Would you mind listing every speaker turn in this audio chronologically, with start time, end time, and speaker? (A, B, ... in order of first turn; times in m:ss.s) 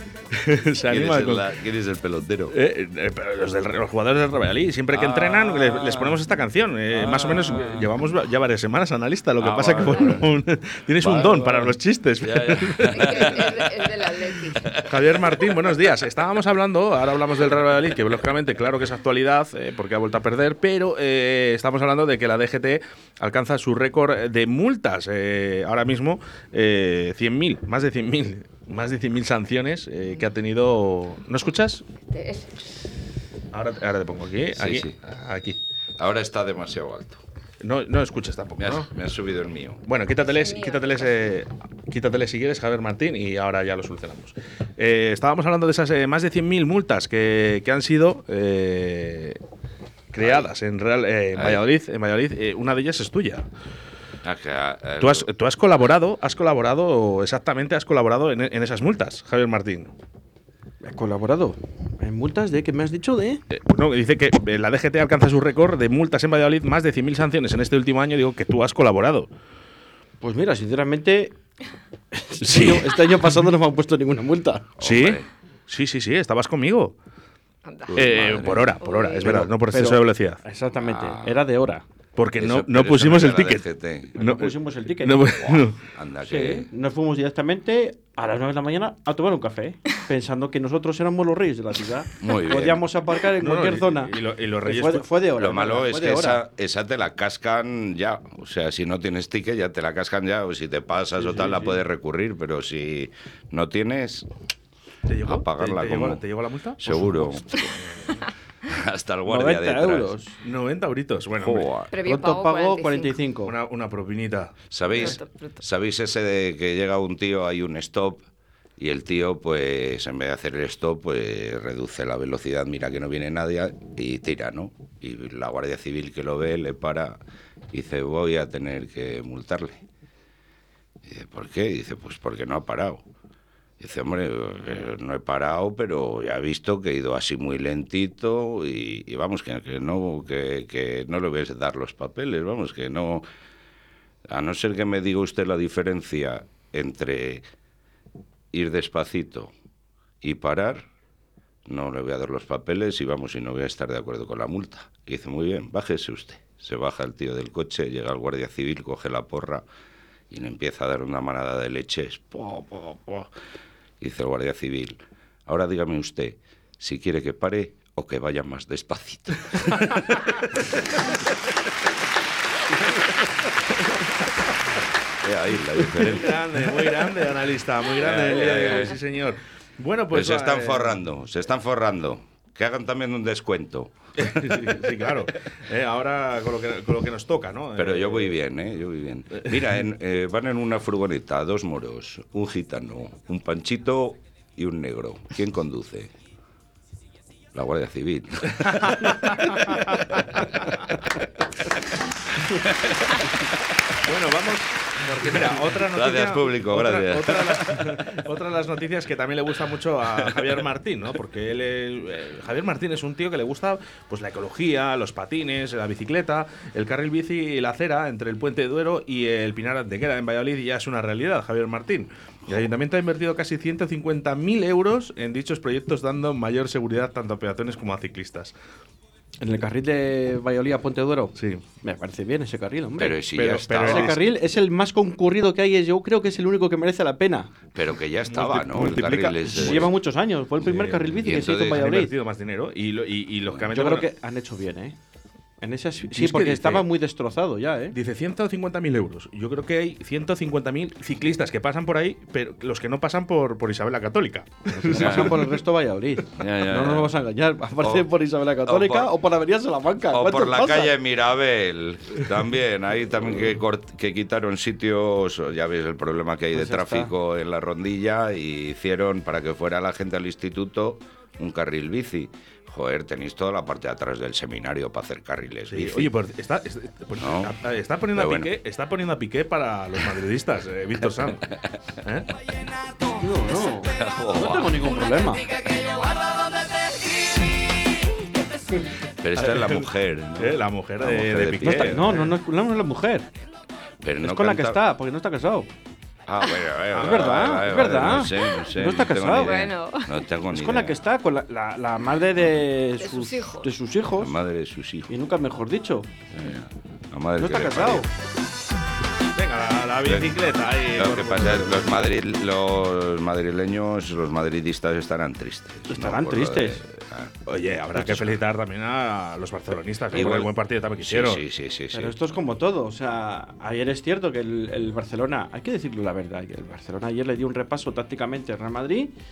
0:00.3-0:01.5 A
0:00.9-0:02.6 B
0:02.5-0:13.4 A
0:04.9-0:06.2 B
0:06.9-0:08.0 B
0:09.4-0:10.3 B
0:11.0-0:13.9 B
0:12.9-0:14.7 C
0:14.5-0:15.7 B
0:14.9-0:31.8 A
0:32.0-0:32.6 C
0:33.5-0:35.6 A
0:34.6-0:35.0 B
0:36.0-0:37.2 B
0:37.6-0:38.9 A
0:38.6-0:39.8 B
0:39.9-0:49.4 A
0:40.3-0:41.0 C
0:50.1-0:53.5 A
0:50.2-0:50.5 B
0:51.4-0:51.6 B
0:54.2-0:55.3 B
0:55.0-0:59.9 A
1:00.8-1:03.4 D
1:03.5-1:09.3 A
1:10.2-1:11.4 D
1:12.1-1:14.7 D
1:12.4-1:13.4 A
1:14.8-1:15.3 B
1:14.8-1:17.0 A
1:17.6-1:19.4 C
1:17.9-1:18.8 B
1:18.0-1:20.4 A
1:19.3-1:21.8 D
1:20.8-1:21.4 B
1:22.2-1:25.8 A
1:22.4-1:24.2 B
1:24.2-1:25.3 D
1:25.2-1:26.7 B
1:26.2-1:34.1 D
1:32.2-1:32.8 B
1:33.4-1:35.1 A
1:34.6-1:36.4 D
1:35.4-1:44.3 B
1:41.3-1:41.7 A
1:45.1-1:48.2 A
1:45.2-1:46.2 B
1:46.8-1:47.7 B
1:48.7-1:50.1 B
1:49.3-1:50.3 D
1:50.4-1:51.7 A
1:51.4-1:51.9 B
1:51.9-1:53.2 C
1:52.0-1:53.5 D
1:53.5-1:55.1 A
1:54.7-1:58.2 B
1:54.9-1:55.6 C
1:58.8-2:07.2 B
2:07.7-2:09.8 B
2:11.0-2:13.0 B
2:13.8-2:23.2 B
2:24.3-2:27.4 B
2:28.5-2:29.5 B
2:30.2-2:30.9 B
2:31.7-2:39.6 B
2:40.3-2:43.3 B
2:44.0-2:50.4 B
2:55.2-2:56.7 B
2:55.9-3:01.0 A
2:57.9-2:59.0 B
3:00.1-3:04.8 B
3:04.2-3:08.4 A
3:07.8-3:16.1 B
3:17.5-3:20.6 B
3:18.6-3:20.0 A
3:22.5-3:23.5 B
3:24.0-3:48.5 A
3:25.1-3:28.1 B
3:49.4-3:57.5 D
3:51.4-3:51.6 A
3:53.0-3:54.2 B
3:53.4-3:54.2 A
3:57.7-3:59.9 B
3:58.3-3:59.9 A
3:59.5-4:02.1 D
4:00.6-4:04.1 A
4:01.2-4:01.8 B
4:03.7-4:05.0 D
4:05.6-4:08.0 D
4:06.1-4:06.9 A
4:07.9-4:15.6 A
4:14.7-4:20.9 D
4:14.9-4:15.4 B
4:16.3-4:17.2 B
4:17.8-4:18.1 B
4:18.6-4:19.1 B
4:20.1-4:36.1 B
4:26.5-4:27.1 D
4:35.7-4:41.5 A
4:37.2-4:37.5 B
4:38.1-4:38.5 B
4:42.0-4:42.3 A
4:43.2-4:45.5 D
4:43.8-4:44.9 B
4:49.2-4:52.2 B
4:49.4-4:52.4 A
4:51.6-4:53.3 D
4:54.0-4:54.8 B
4:54.2-4:55.7 D
4:56.3-5:01.0 B
4:56.9-4:57.4 A
4:56.9-4:59.6 D
4:59.4-5:00.2 C
5:00.5-5:04.4 D
5:03.0-5:03.7 C
5:04.2-5:05.1 B
5:05.1-5:06.1 D
5:06.3-5:08.1 B
5:07.4-5:08.1 D
5:09.4-5:12.1 A
5:10.0-5:10.4 B
5:11.0-5:17.3 B
5:15.9-5:16.8 D
5:17.5-5:21.4 A
5:17.9-5:18.4 B
5:20.1-5:22.2 B
5:21.9-5:29.1 D